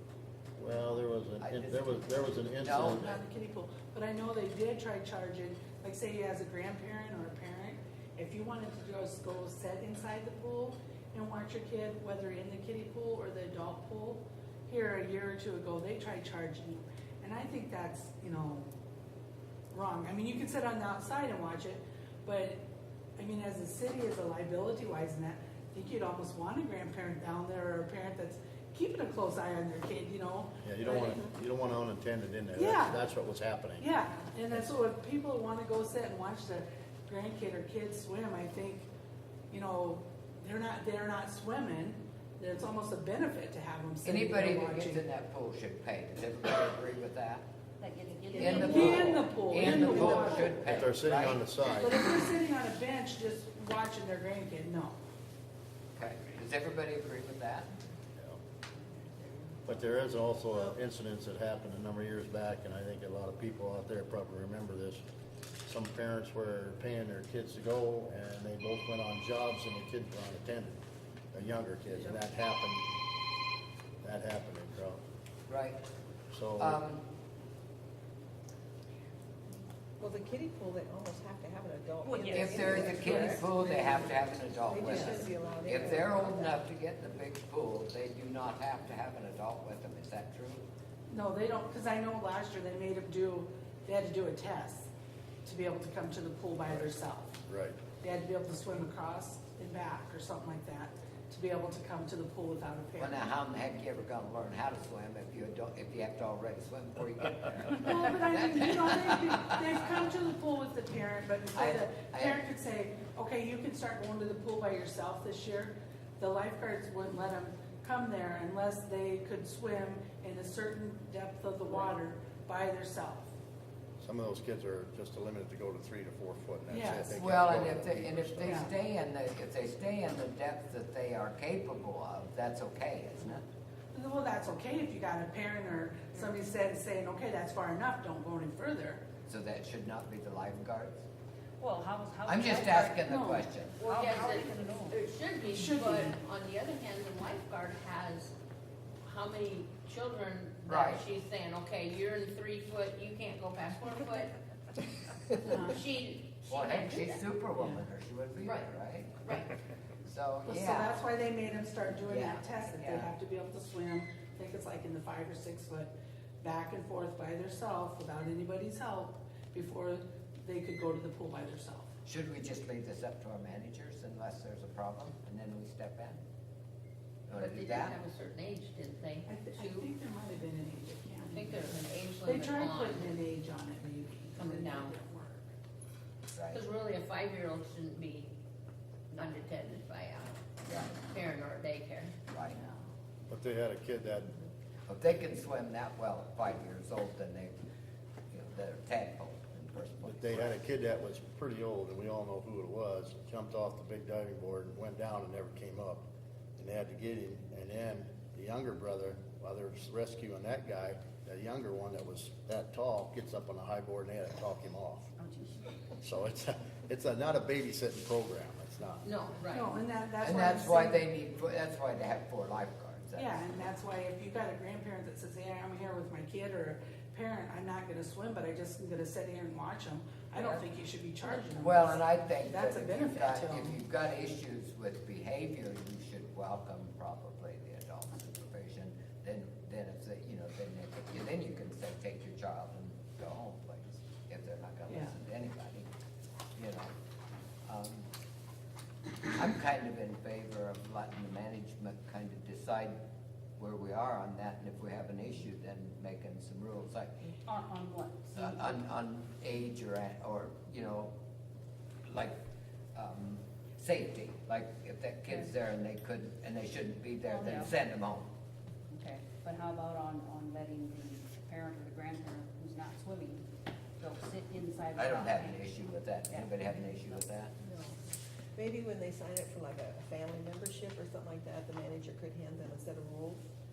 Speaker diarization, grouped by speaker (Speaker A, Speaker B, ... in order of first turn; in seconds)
Speaker A: 0.6-3.2, 30.6-33.9, 49.6-52.1, 59.7-65.0, 65.6-70.8, 71.3-72.8, 74.0-75.0, 76.3-76.8, 96.7-96.9, 97.5-97.8, 124.0-128.7, 193.3-194.4, 200.0-206.1, 206.6-215.1, 216.0-219.1
Speaker B: 1.4-3.2, 44.0-47.5, 48.4-51.5, 56.0-57.7, 75.5-75.8, 76.6-77.0, 82.3-90.6, 103.0-109.6, 111.5-112.4, 127.1-133.4, 139.2-141.1, 142.2-143.7, 150.7-151.0, 156.5-159.3, 160.0-161.0, 162.1-163.1, 172.0-176.2, 177.2-178.0, 186.3-186.6, 192.3-192.6, 194.9-197.6, 198.3-200.6, 220.2-223.4, 231.5-245.9, 246.5-246.9, 247.7-248.1, 249.3-253.0, 253.6-257.1, 258.3-261.1, 262.0-262.3, 262.9-268.3, 274.9-277.5
Speaker C: 3.0-18.7, 19.7-22.6, 23.2-31.2, 32.5-33.0, 33.8-38.9, 39.5-45.0, 48.3-50.7, 51.7-55.0, 91.1-94.9, 95.4-97.4, 98.0-103.2, 107.8-123.3, 126.7-127.1, 128.5-128.7, 133.9-139.1, 145.4-146.2, 157.6-157.8, 160.5-171.9, 179.3-185.5, 192.6-192.8, 219.5-221.0, 223.2-233.8, 244.9-245.2
Speaker D: 47.8-50.3, 82.0-83.5, 141.6-145.0, 215.2-215.7, 230.3-230.6, 257.5-258.8, 267.2-267.7, 268.9-273.4, 274.0-277.2
Speaker E: 48.3-49.0, 143.8-148.3, 149.0-154.3, 155.3-157.2, 158.4-159.5, 177.3-179.9, 181.2-183.1, 184.3-184.9, 186.5-188.3, 189.1-192.2, 219.0-219.7
Speaker F: 80.0-86.6, 277.6-278.0, 278.5-283.5